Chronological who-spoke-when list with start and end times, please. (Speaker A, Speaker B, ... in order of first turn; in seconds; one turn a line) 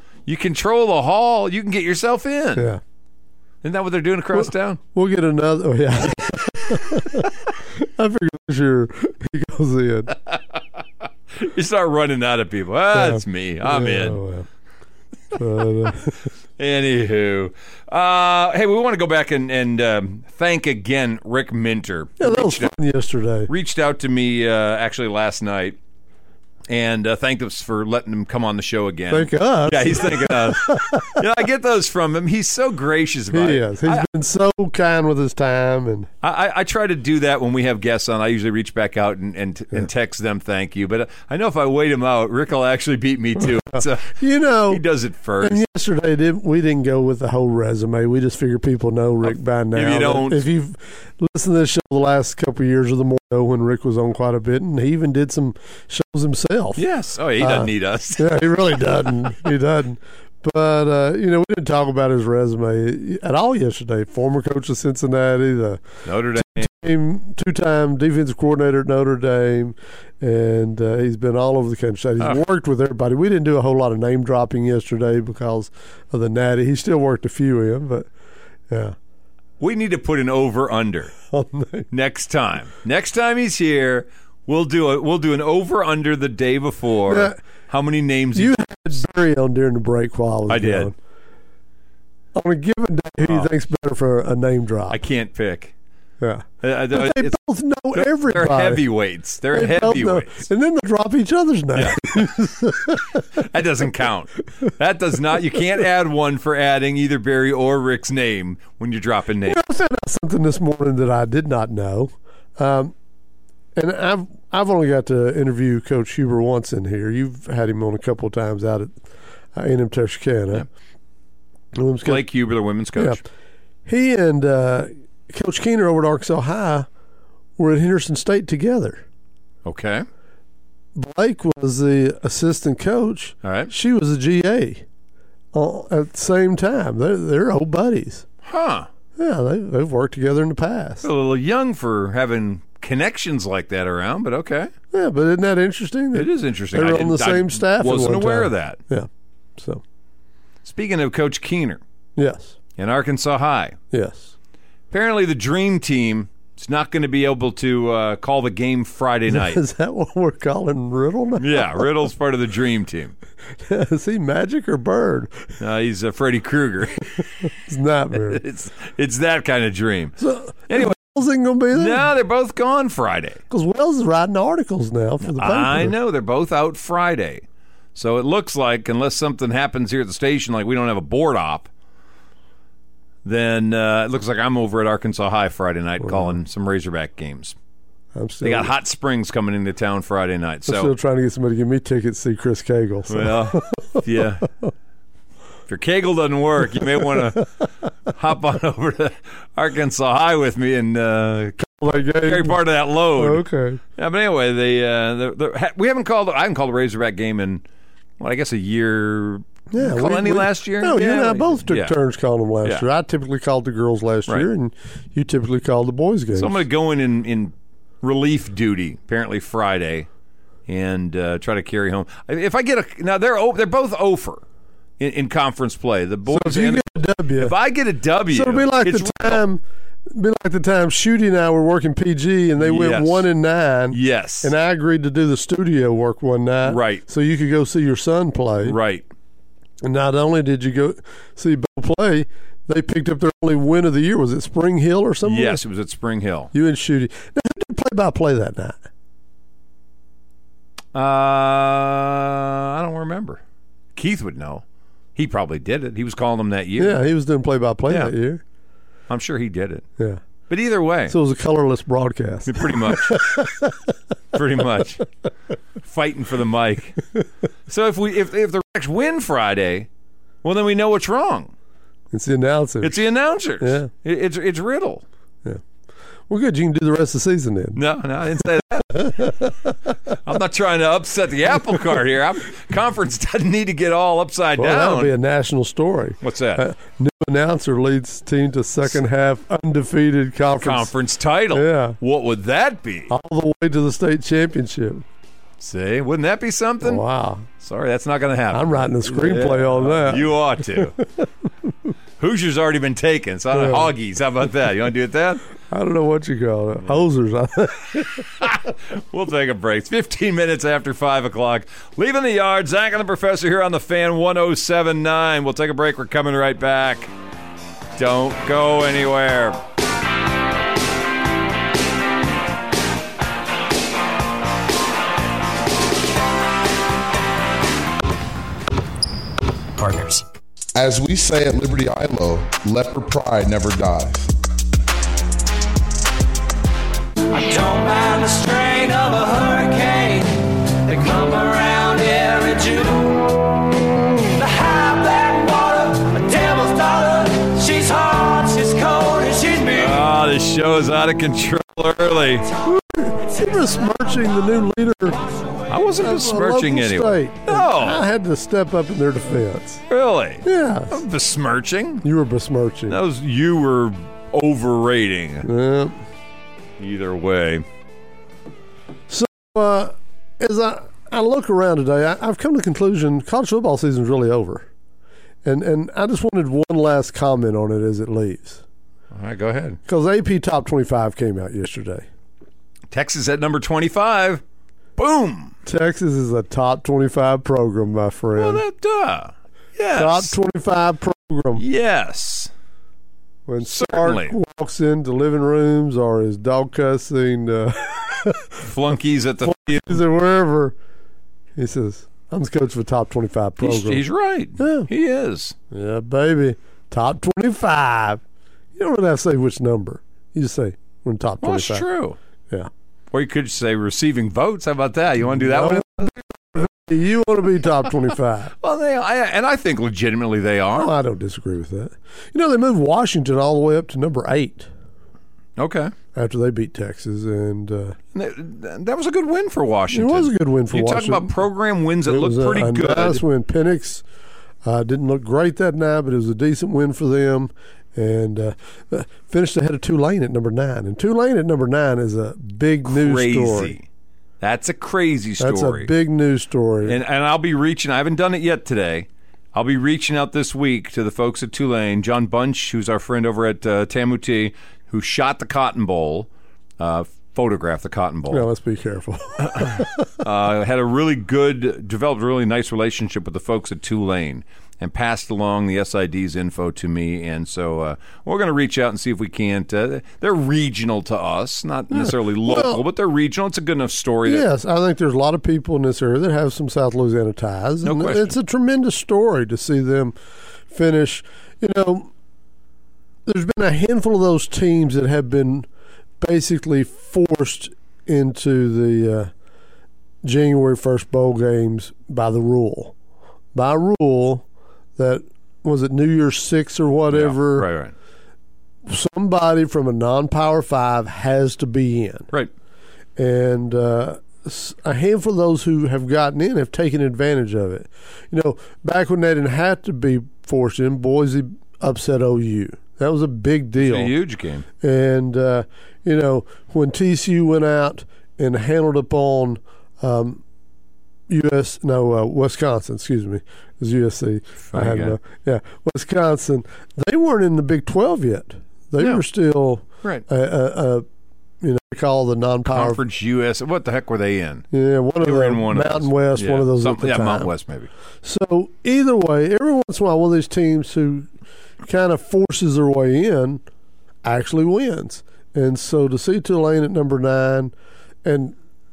Speaker A: 0.3-2.7
Speaker B: 2.5-2.8
Speaker A: 3.6-4.8
Speaker B: 4.4-10.2
Speaker A: 11.4-14.2
Speaker B: 12.9-14.5
Speaker B: 15.3-16.3
Speaker A: 16.6-22.7
Speaker B: 22.2-23.5
Speaker A: 23.5-25.8
Speaker A: 26.7-34.1
Speaker B: 29.1-31.2
Speaker B: 33.3-36.1
Speaker A: 36.2-45.6
Speaker B: 43.7-44.8
Speaker B: 45.4-56.8
Speaker A: 49.3-50.5
Speaker A: 56.8-58.6
Speaker B: 57.4-78.1
Speaker A: 66.1-66.7
Speaker B: 78.7-79.0
Speaker A: 79.6-81.1
Speaker B: 81.3-81.9
Speaker A: 81.9-88.6
Speaker B: 87.1-87.4
Speaker B: 88.3-91.0
Speaker A: 90.5-90.9
Speaker B: 92.3-95.0
Speaker A: 94.9-95.7
Speaker B: 96.2-98.8
Speaker A: 96.6-97.4
Speaker A: 97.9-100.4
Speaker B: 99.5-103.3
Speaker A: 101.8-102.0
Speaker A: 103.4-109.6
Speaker B: 109.5-113.0
Speaker B: 113.8-119.0
Speaker B: 119.5-120.7
Speaker B: 121.7-122.2
Speaker A: 122.0-123.2
Speaker B: 123.0-123.2
Speaker B: 123.9-126.9
Speaker B: 127.6-129.0
Speaker A: 129.7-130.1
Speaker B: 131.0-134.8
Speaker A: 133.4-133.7
Speaker B: 135.5-138.3
Speaker A: 138.4-138.9
Speaker B: 139.2-141.1
Speaker A: 141.0-144.7
Speaker B: 144.9-149.8
Speaker A: 146.1-148.8
Speaker A: 150.6-151.8
Speaker B: 152.2-152.6
Speaker A: 152.8-153.8
Speaker B: 153.9-154.3
Speaker A: 154.9-159.6
Speaker B: 159.3-161.9
Speaker A: 161.4-163.1
Speaker B: 163.6-165.4
Speaker A: 165.6-167.3
Speaker B: 167.6-168.4
Speaker A: 168.3-170.2
Speaker B: 170.2-172.1
Speaker A: 170.7-170.9
Speaker A: 171.7-173.4
Speaker B: 173.5-175.9
Speaker A: 175.3-177.4
Speaker A: 177.9-181.7
Speaker A: 183.2-187.6
Speaker B: 186.1-186.3
Speaker B: 188.2-188.7
Speaker A: 188.4-190.9
Speaker B: 190.7-194.2
Speaker A: 193.1-194.5
Speaker A: 195.7-203.4
Speaker B: 201.6-202.6
Speaker B: 203.2-203.8
Speaker A: 204.0-207.6
Speaker A: 208.2-211.9
Speaker B: 209.7-216.6
Speaker A: 216.3-220.1
Speaker A: 220.7-224.4
Speaker A: 225.0-229.4
Speaker B: 226.3-227.5
Speaker B: 228.3-238.8
Speaker A: 232.6-233.3
Speaker A: 233.9-234.5
Speaker A: 236.7-237.0
Speaker A: 238.6-239.1
Speaker B: 239.8-245.6
Speaker A: 245.3-246.5
Speaker B: 246.5-248.8
Speaker A: 250.9-253.4
Speaker A: 254.0-254.6
Speaker A: 255.2-257.0
Speaker B: 256.8-258.4
Speaker A: 259.1-259.9
Speaker A: 260.5-261.2
Speaker B: 261.1-263.9
Speaker A: 262.5-263.2
Speaker A: 264.3-265.1
Speaker A: 265.8-267.0
Speaker A: 267.7-269.9
Speaker A: 270.4-271.5
Speaker B: 272.1-273.1
Speaker A: 272.8-275.0
Speaker B: 273.6-273.9
Speaker B: 276.3-277.8
Speaker A: 277.8-279.5
Speaker B: 279.0-279.5
Speaker A: 280.1-285.1
Speaker B: 284.6-290.9
Speaker A: 286.2-286.6
Speaker A: 290.6-293.1
Speaker B: 291.5-292.0
Speaker B: 293.1-295.1
Speaker A: 295.6-297.0
Speaker B: 296.8-297.5
Speaker A: 297.6-301.0
Speaker B: 298.5-301.3
Speaker A: 302.2-305.4
Speaker B: 303.5-303.9
Speaker B: 305.7-308.3
Speaker A: 308.4-317.1
Speaker A: 318.0-319.6
Speaker C: 329.8-330.2
Speaker D: 330.8-334.3
Speaker C: 337.3-343.3
Speaker C: 344.3-350.0
Speaker A: 349.8-352.5
Speaker B: 352.6-355.2
Speaker A: 355.7-358.1
Speaker B: 356.0-359.8
Speaker A: 359.9-362.1
Speaker B: 360.4-361.0
Speaker B: 362.0-363.0
Speaker A: 362.9-365.5
Speaker B: 365.4-366.0
Speaker A: 366.8-367.6
Speaker B: 369.1-374.7
Speaker B: 375.4-378.6
Speaker A: 379.1-379.8
Speaker B: 379.9-382.1
Speaker A: 382.9-384.4
Speaker A: 385.0-385.5
Speaker B: 385.6-388.6
Speaker A: 388.4-390.3
Speaker B: 389.9-391.6
Speaker A: 391.6-392.5
Speaker B: 393.5-398.6
Speaker A: 393.6-394.4
Speaker A: 398.6-400.0
Speaker B: 399.4-400.8
Speaker B: 401.6-404.0
Speaker A: 403.6-405.6
Speaker B: 404.6-404.9
Speaker B: 405.7-408.2
Speaker B: 408.8-411.9
Speaker A: 411.4-412.2
Speaker A: 413.1-416.1
Speaker B: 415.3-418.6
Speaker A: 418.6-420.9
Speaker B: 420.7-424.7
Speaker A: 425.6-425.9
Speaker B: 426.1-428.0
Speaker A: 428.1-433.2
Speaker B: 429.9-431.4
Speaker B: 432.1-434.0
Speaker B: 434.6-443.8
Speaker A: 442.9-443.9
Speaker A: 444.4-445.9
Speaker B: 445.4-447.0
Speaker A: 446.9-456.3
Speaker A: 456.8-458.5
Speaker B: 458.3-460.1
Speaker A: 459.4-474.5
Speaker B: 471.9-472.8
Speaker B: 474.3-480.2
Speaker A: 477.8-478.3
Speaker B: 480.7-482.1
Speaker B: 483.3-485.7
Speaker B: 486.2-489.3
Speaker B: 490.2-492.9
Speaker B: 493.5-494.4
Speaker B: 495.0-497.7
Speaker A: 497.1-497.9
Speaker B: 498.9-502.3
Speaker B: 503.2-514.1
Speaker A: 513.8-514.7
Speaker B: 514.8-520.4
Speaker B: 521.3-531.0
Speaker A: 524.7-525.2
Speaker B: 531.6-533.0
Speaker A: 532.7-534.6
Speaker B: 534.7-537.5
Speaker A: 535.2-537.9
Speaker B: 538.2-541.3
Speaker B: 541.8-543.6
Speaker B: 544.2-547.7
Speaker B: 548.2-548.5